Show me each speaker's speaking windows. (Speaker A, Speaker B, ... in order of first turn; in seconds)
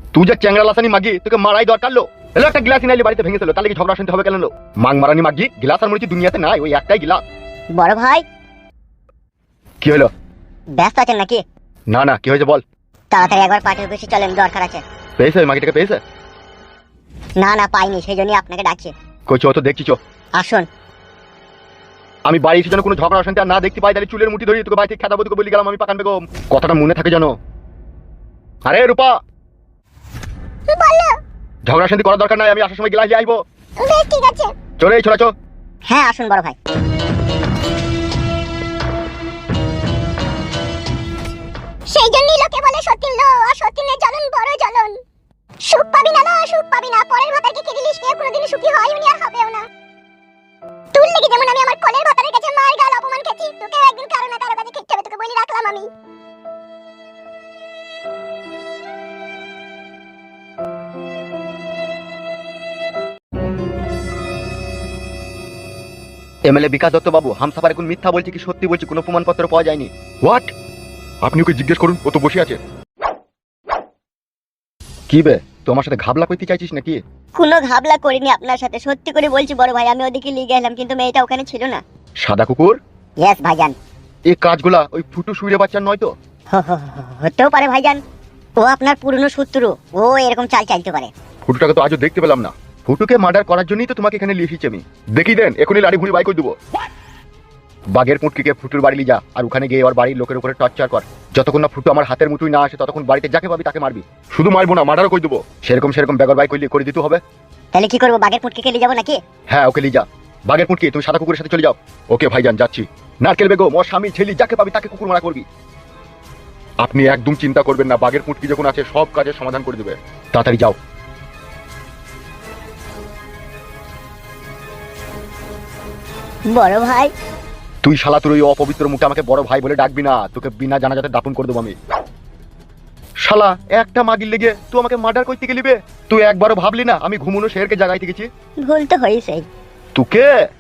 Speaker A: 0.1-7.2, 9.8-10.1, 11.9-12.6, 15.2-16.0, 19.3-20.0, 22.2-27.3, 28.6-29.1, 31.7-33.4, 34.8-35.3, 66.5-70.5, 71.2-72.6, 75.1-77.0, 82.2-82.8, 84.3-86.1, 91.4-96.5, 97.9-107.2, 109.5-115.5, 116.8-120.8, 127.8-131.8, 133.2-138.3, 139.9-140.3
Speaker B: 7.8-8.2, 10.8-11.4, 13.1-14.8, 17.4-18.9, 20.4-20.6, 35.9-36.5, 77.4-81.8, 83.2-83.7, 86.5-88.0, 88.6-91.1, 107.8-109.1, 126.5-127.1, 138.7-139.4
Speaker C: 30.7-31.1, 33.8-34.5, 41.9-45.0, 45.6-49.6, 50.9-55.9, 78.0-78.3, 83.4-83.7, 89.0-89.6, 108.2-109.1